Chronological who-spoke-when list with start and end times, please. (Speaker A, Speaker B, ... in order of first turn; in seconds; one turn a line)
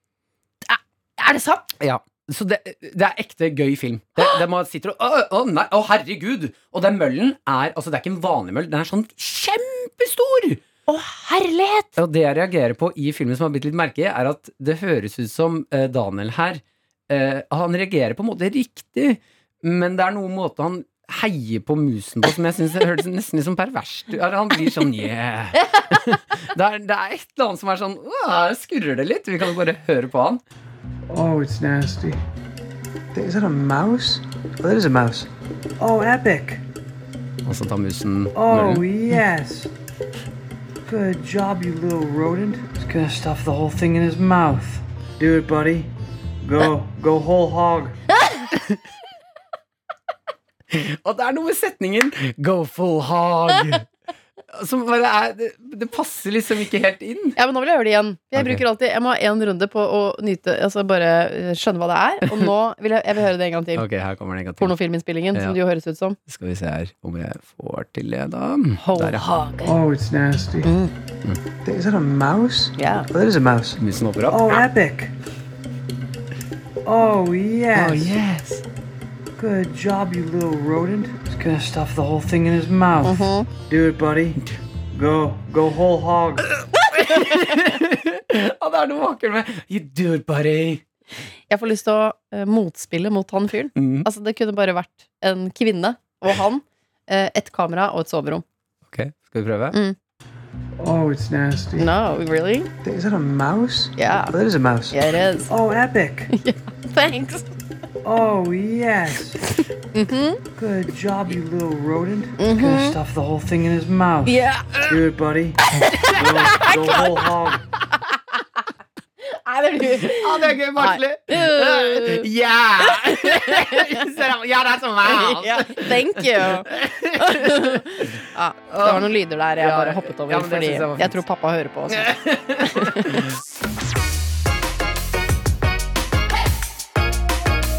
Speaker A: 0.7-1.7
Speaker B: 1.8-10.6
Speaker A: 10.9-11.9
Speaker B: 11.9-30.4
Speaker C: 31.1-32.2
Speaker C: 33.1-35.3
Speaker C: 35.8-36.6
Speaker B: 37.4-38.9
Speaker C: 38.3-39.7
Speaker C: 40.8-45.9
Speaker C: 46.4-47.9
Speaker B: 50.7-53.9
Speaker B: 54.5-57.4
Speaker A: 57.4-63.8
Speaker B: 58.3-58.6
Speaker B: 63.7-64.8
Speaker A: 64.6-66.2
Speaker B: 65.3-65.6
Speaker B: 66.3-69.2
Speaker A: 68.8-69.7
Speaker C: 69.6-70.7
Speaker A: 70.6-70.9
Speaker C: 71.6-75.1
Speaker A: 72.8-73.1
Speaker B: 73.8-74.6
Speaker C: 76.8-78.2
Speaker B: 77.7-78.6
Speaker C: 79.3-84.4
Speaker A: 83.0-83.5
Speaker C: 84.9-86.5
Speaker B: 86.9-90.8
Speaker A: 87.1-87.4
Speaker A: 91.5-98.4
Speaker B: 93.8-94.1
Speaker B: 98.9-99.8
Speaker C: 100.8-101.9
Speaker A: 101.8-102.7
Speaker C: 102.8-106.3
Speaker A: 104.0-104.4
Speaker A: 104.9-105.5
Speaker A: 106.3-107.5
Speaker C: 108.0-109.4
Speaker A: 109.9-110.4
Speaker C: 110.5-117.6
Speaker A: 112.4-113.0
Speaker A: 114.2-114.8
Speaker A: 116.0-117.3
Speaker A: 119.2-122.3
Speaker B: 119.9-128.0
Speaker A: 122.8-124.1
Speaker A: 125.0-133.2
Speaker B: 128.7-131.2
Speaker B: 131.9-133.3